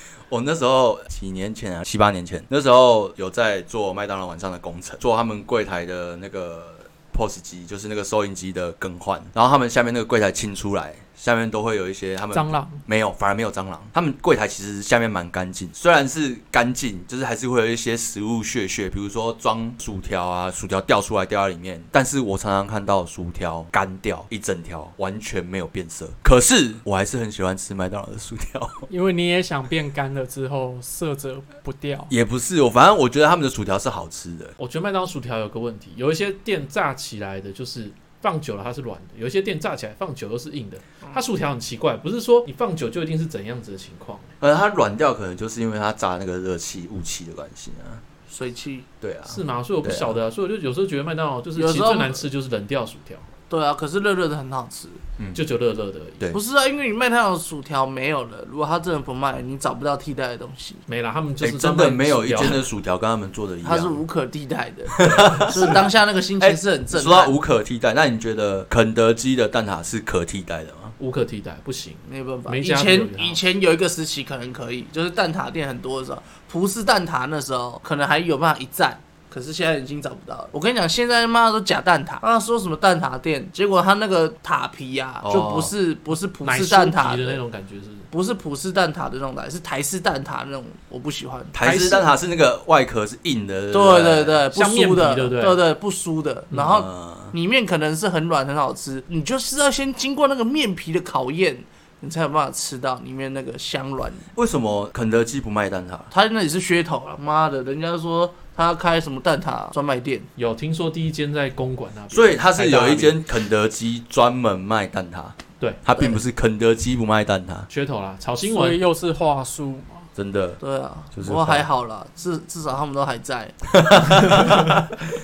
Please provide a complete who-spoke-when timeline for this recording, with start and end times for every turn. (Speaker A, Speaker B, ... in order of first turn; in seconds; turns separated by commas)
Speaker A: 0.3-28.9, Speaker B: 12.3-12.8, Speaker B: 28.9-32.1, Speaker A: 32.1-34.5, Speaker C: 34.6-44.3, Speaker A: 44.4-48.0, Speaker D: 48.3-48.9, Speaker A: 49.0-50.1, Speaker C: 49.3-53.2, Speaker D: 51.5-52.2, Speaker D: 53.5-55.0, Speaker C: 55.3-56.3, Speaker D: 56.3-60.8, Speaker C: 60.9-62.6, Speaker A: 61.4-64.0, Speaker D: 63.6-67.3, Speaker A: 65.0-65.9, Speaker C: 65.0-65.9, Speaker A: 66.4-70.9, Speaker C: 71.0-73.4, Speaker D: 72.0-87.4, Speaker A: 85.2-85.7, Speaker C: 86.4-88.1, Speaker D: 88.1-91.5, Speaker A: 91.5-94.4, Speaker C: 91.6-92.1, Speaker D: 93.7-104.2, Speaker C: 94.5-95.6, Speaker A: 96.5-97.3, Speaker A: 104.3-106.1, Speaker D: 106.1-110.3, Speaker C: 110.4-113.2, Speaker A: 112.1-117.7, Speaker D: 116.0-116.2, Speaker C: 117.7-118.8, Speaker B: 118.4-120.1, Speaker A: 120.2-120.6, Speaker D: 120.6-123.5, Speaker A: 121.1-121.7, Speaker A: 123.7-124.8, Speaker C: 124.1-124.7